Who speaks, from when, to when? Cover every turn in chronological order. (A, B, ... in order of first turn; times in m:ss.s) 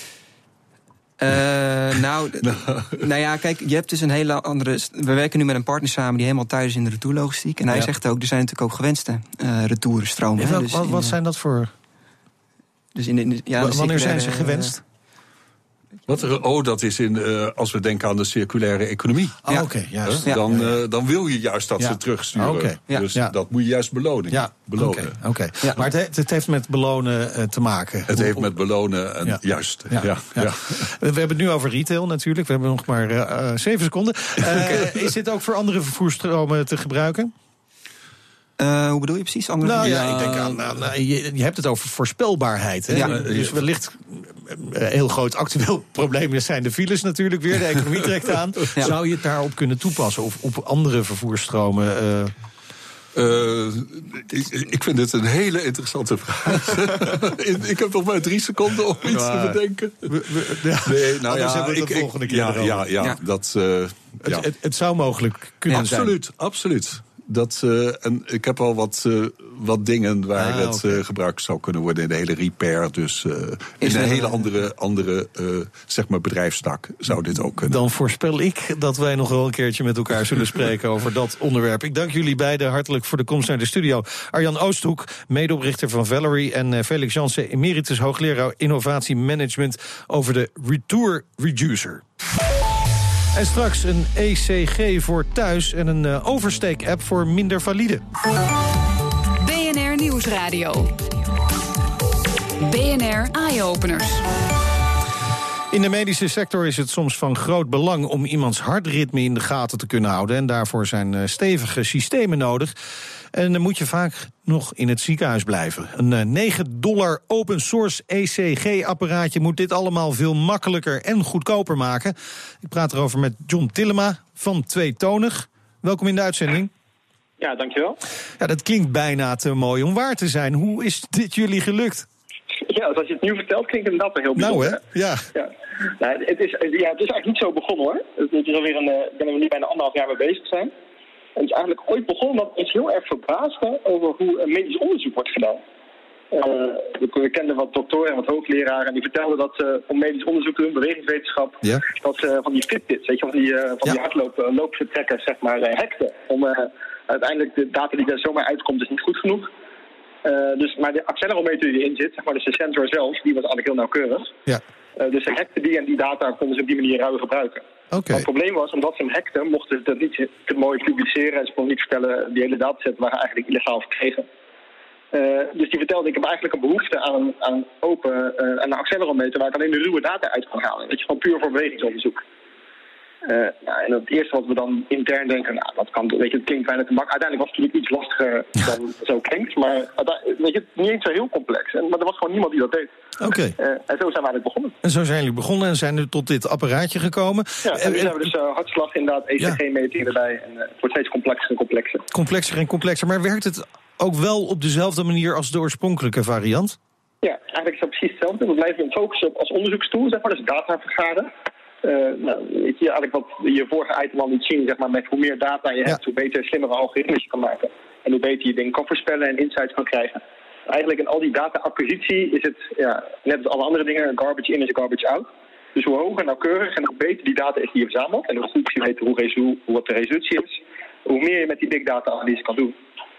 0:01.2-0:11.1 A
0:02.4-0:03.0 B
0:10.4-0:11.7 C
0:12.9-0:14.7 A
0:13.6-0:14.8 C
0:16.1-0:19.4 B
0:19.5-0:20.8 C
0:20.0-0:25.2 B
0:21.8-0:23.3 C
0:24.3-0:28.5 C
0:28.1-0:30.9 B
0:29.2-0:37.3 C
0:38.6-0:40.0 A
0:39.6-0:52.3 C
0:39.8-0:40.7 B
0:43.0-0:43.6 B
0:53.1-1:00.2 B
0:59.1-1:02.9 C
1:00.8-1:04.5 B
1:04.2-1:06.1 C
1:05.7-1:17.8 B
1:10.4-1:11.0 C
1:13.8-1:14.3 A
1:17.5-1:32.0 C
1:33.3-1:38.0 C
1:39.4-1:40.9 D
1:42.6-1:44.2 D
1:45.7-1:52.7 C
1:53.3-2:06.7 C
2:07.4-2:08.0 E
2:08.4-2:12.1 C
2:12.6-2:14.8 E
2:14.3-2:15.2 C
2:15.3-2:20.7 E
2:21.4-2:25.6 E
2:26.3-2:39.5 E
2:40.2-2:44.3 E
2:45.0-2:54.3 E
2:47.9-2:48.2 C
2:55.1-3:02.2 E
3:03.2-3:12.9 E
3:13.2-3:13.6 C
3:13.6-3:14.8 E
3:14.8-3:18.3 C
3:17.6-3:22.0 E
3:22.1-3:26.8 C
3:27.2-3:31.3 E
3:31.8-3:52.8 E